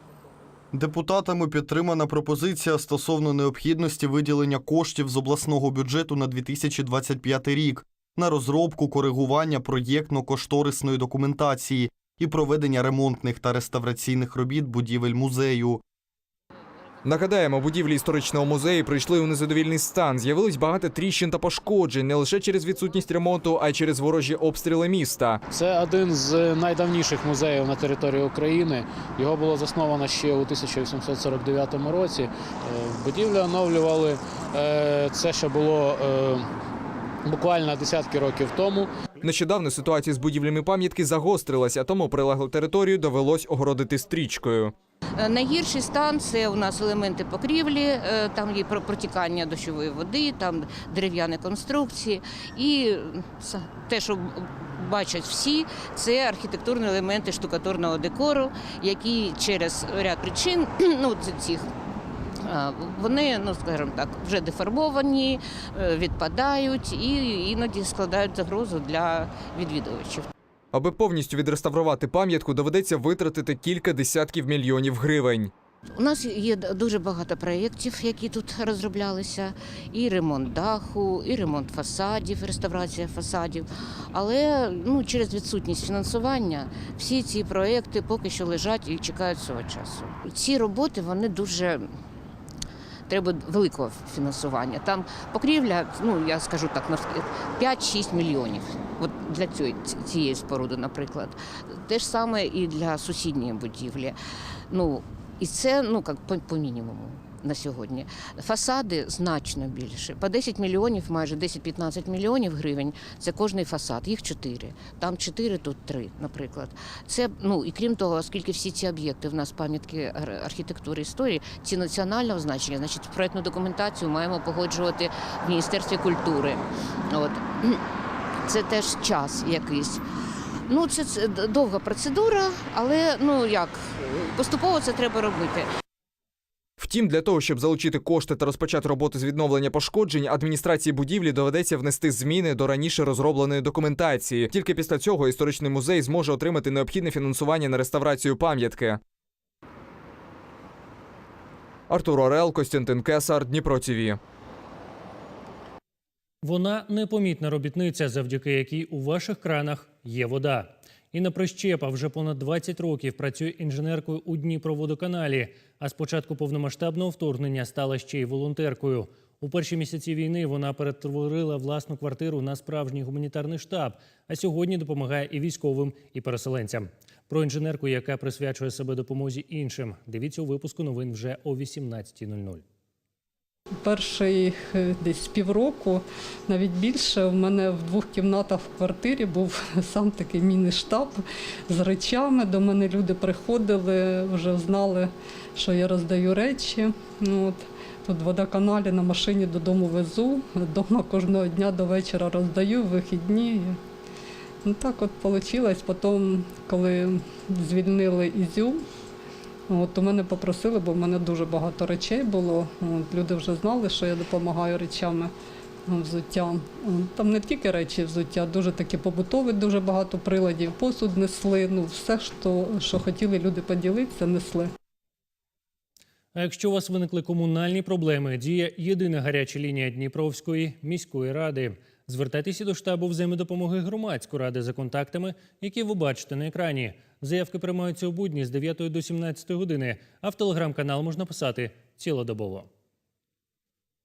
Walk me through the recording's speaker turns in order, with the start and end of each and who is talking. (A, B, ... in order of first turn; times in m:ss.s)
0:00.7-0:15.8 A
0:17.0-0:25.4 B
0:25.5-0:36.5 C
0:37.2-0:38.9 C
0:39.2-0:44.7 B
0:45.2-1:01.6 D
1:02.5-1:10.3 D
1:10.7-1:15.5 B
1:15.9-1:31.8 D
1:33.1-1:44.2 D
1:44.7-2:07.8 D
2:08.5-2:10.0 D
2:10.7-2:15.7 D
2:16.8-2:29.0 B
2:31.9-2:34.2 B
2:36.4-3:02.6 E
3:03.8-3:23.8 F
3:24.6-3:28.8 F
3:29.7-3:35.3 F
3:35.9-3:44.7 F
3:46.3-4:02.7 E